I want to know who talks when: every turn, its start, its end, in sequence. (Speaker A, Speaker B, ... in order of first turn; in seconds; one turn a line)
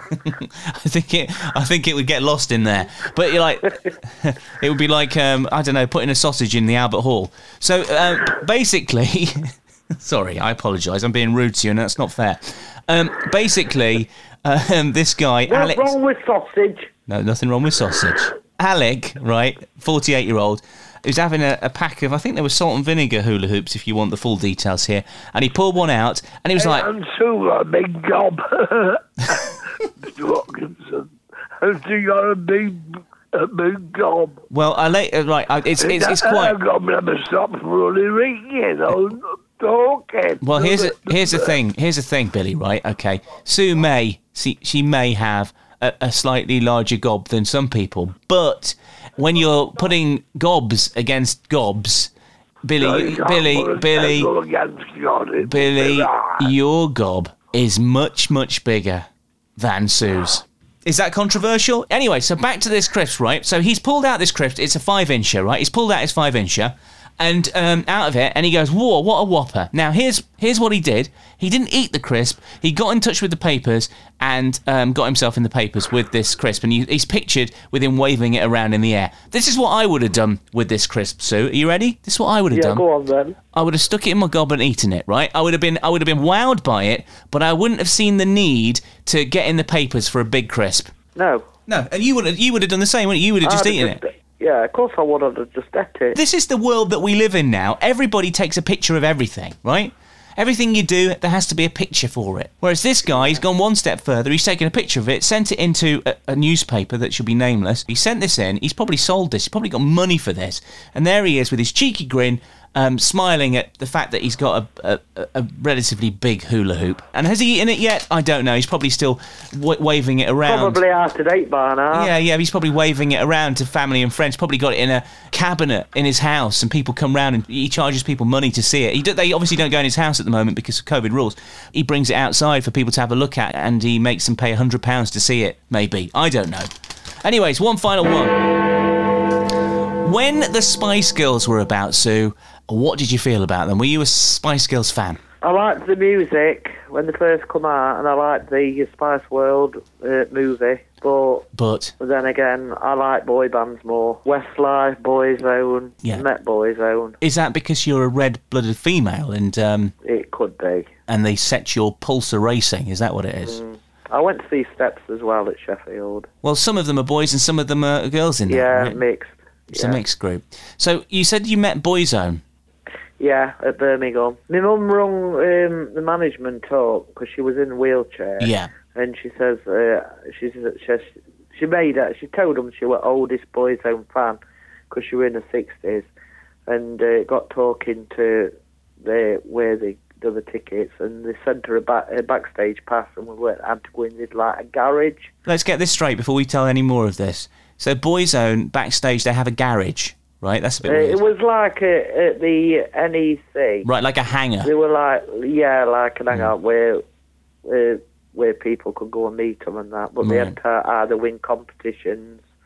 Speaker A: 0.1-15.9
Speaker B: 15.5-16.9
Speaker A: 17.1-26.9
Speaker C: 26.6-34.4
Speaker A: 34.5-36.6
Speaker C: 35.8-41.5
Speaker A: 40.4-52.1
Speaker A: 52.6-54.3
Speaker C: 52.8-56.5
Speaker A: 55.4-82.8
Speaker B: 82.5-83.4
Speaker A: 83.5-90.9
Speaker B: 91.2-91.5
Speaker A: 91.7-94.0
Speaker B: 93.4-96.2
Speaker A: 96.1-120.8
Speaker B: 120.4-122.1
Speaker A: 121.9-136.7
Speaker A: 137.2-138.5
Speaker A: 140.0-145.2
Speaker B: 145.4-151.5
Speaker A: 151.6-151.9
Speaker B: 152.0-157.2
Speaker A: 157.2-159.9
Speaker B: 160.0-160.9
Speaker A: 161.1-163.6
Speaker B: 163.4-166.3
Speaker A: 166.4-169.0
Speaker B: 168.5-170.0
Speaker A: 169.7-172.4
Speaker B: 173.2-184.4
Speaker A: 178.4-178.7
Speaker B: 184.9-186.1
Speaker B: 186.7-195.3
Speaker A: 195.4-201.2
Speaker B: 200.8-203.9
Speaker A: 203.8-204.7
Speaker B: 204.6-207.0
Speaker B: 207.6-212.4
Speaker A: 210.2-210.5